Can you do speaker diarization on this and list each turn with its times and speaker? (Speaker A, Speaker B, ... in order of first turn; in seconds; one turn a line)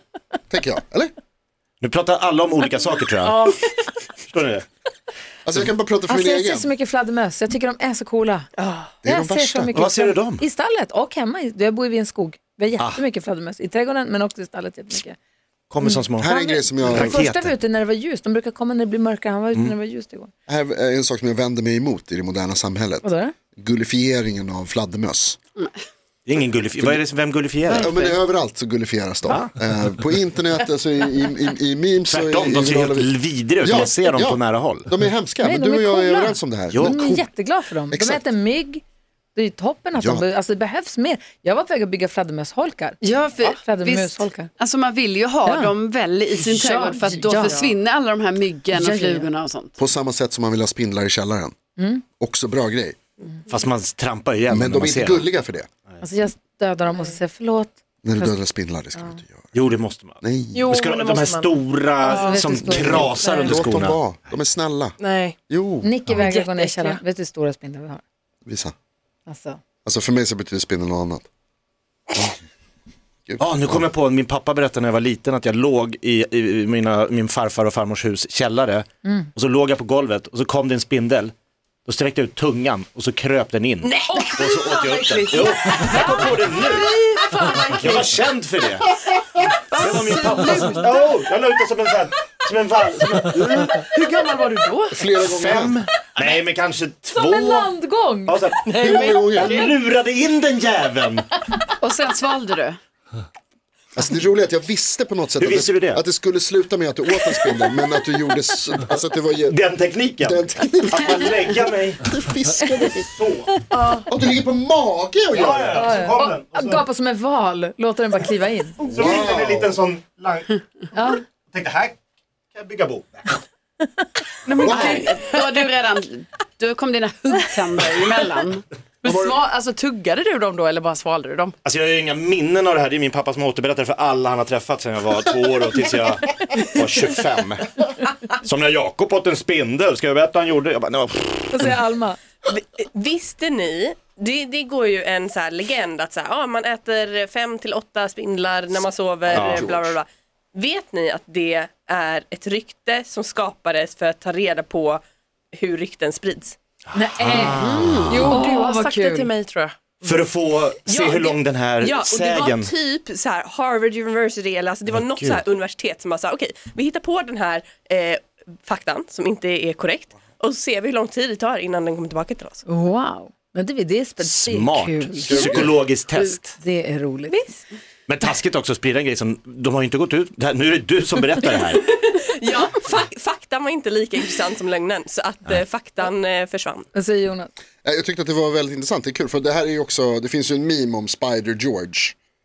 Speaker A: 0.5-1.1
Speaker B: 1.8-3.4
Speaker C: 3.2-3.6
Speaker B: 4.3-4.7
Speaker A: 5.5-6.7
Speaker C: 6.1-8.5
Speaker D: 8.6-8.9
Speaker A: 9.0-9.7
Speaker C: 9.0-15.2
Speaker B: 9.7-10.4
Speaker B: 15.7-17.6
Speaker C: 15.8-20.3
Speaker A: 16.2-17.2
Speaker A: 20.5-23.1
Speaker C: 23.0-23.3
Speaker A: 23.6-25.4
Speaker B: 26.3-27.9
Speaker A: 27.7-37.0
Speaker E: 27.8-28.2
Speaker B: 32.1-34.9
Speaker C: 35.4-38.8
Speaker B: 36.7-37.3
Speaker A: 37.9-38.3
Speaker C: 39.4-44.5
Speaker A: 40.0-40.3
Speaker F: 43.0-49.7
Speaker C: 45.5-45.7
Speaker C: 46.5-47.7
Speaker C: 48.7-49.3
Speaker A: 49.8-51.5
Speaker C: 51.8-52.0
Speaker A: 52.2-53.0
Speaker B: 53.5-55.3
Speaker A: 54.5-55.7
Speaker C: 56.0-58.4
Speaker A: 58.0-59.5
Speaker B: 59.5-64.0
Speaker A: 60.2-60.7
Speaker E: 60.5-63.5
Speaker C: 62.1-63.5
Speaker A: 62.7-65.0
Speaker E: 65.0-65.4
Speaker A: 65.5-65.9
Speaker C: 65.8-68.0
Speaker E: 66.1-67.0
Speaker A: 68.5-68.7
Speaker C: 69.3-69.6
Speaker A: 69.8-71.3
Speaker A: 73.3-73.8
Speaker B: 73.4-81.3
Speaker C: 79.0-79.3
Speaker B: 81.9-86.8
Speaker D: 83.8-84.2
Speaker E: 84.1-88.2
Speaker B: 87.7-88.8
Speaker E: 89.2-91.2
Speaker B: 89.7-93.9
Speaker E: 93.9-95.0
Speaker A: 94.9-95.8
Speaker B: 95.2-97.8
Speaker C: 97.2-98.4
Speaker B: 98.3-98.8
Speaker E: 98.7-99.7
Speaker A: 98.8-99.6
Speaker B: 99.3-101.3
Speaker F: 101.8-102.8
Speaker A: 104.0-109.6
Speaker B: 105.4-106.0
Speaker B: 109.5-112.1
Speaker A: 110.2-111.3
Speaker A: 112.1-113.1
Speaker B: 113.0-113.6
Speaker E: 113.8-114.0
Speaker A: 114.1-115.9
Speaker B: 115.3-116.9
Speaker C: 115.7-118.8
Speaker B: 118.8-120.6
Speaker A: 118.9-119.7
Speaker C: 120.9-121.2
Speaker B: 121.3-122.0
Speaker B: 122.5-123.4
Speaker E: 124.5-125.7
Speaker A: 124.6-125.1
Speaker F: 124.6-128.7
Speaker E: 129.0-131.6
Speaker B: 131.6-141.8
Speaker C: 141.5-142.2
Speaker D: 142.5-155.0
Speaker A: 149.3-149.9
Speaker B: 149.3-149.7
Speaker D: 155.6-156.6
Speaker C: 156.9-157.6
Speaker B: 157.0-158.1
Speaker F: 157.4-158.3
Speaker E: 158.1-160.3
Speaker C: 158.1-159.3
Speaker B: 160.1-162.7
Speaker D: 160.9-172.6
Speaker B: 164.9-165.4
Speaker C: 172.7-175.6
Speaker B: 174.2-176.6
Speaker A: 175.3-175.8
Speaker C: 176.6-177.6
Speaker D: 177.3-177.5
Speaker B: 178.1-181.9
Speaker D: 182.0-186.9
Speaker C: 186.9-187.5
Speaker A: 187.8-192.2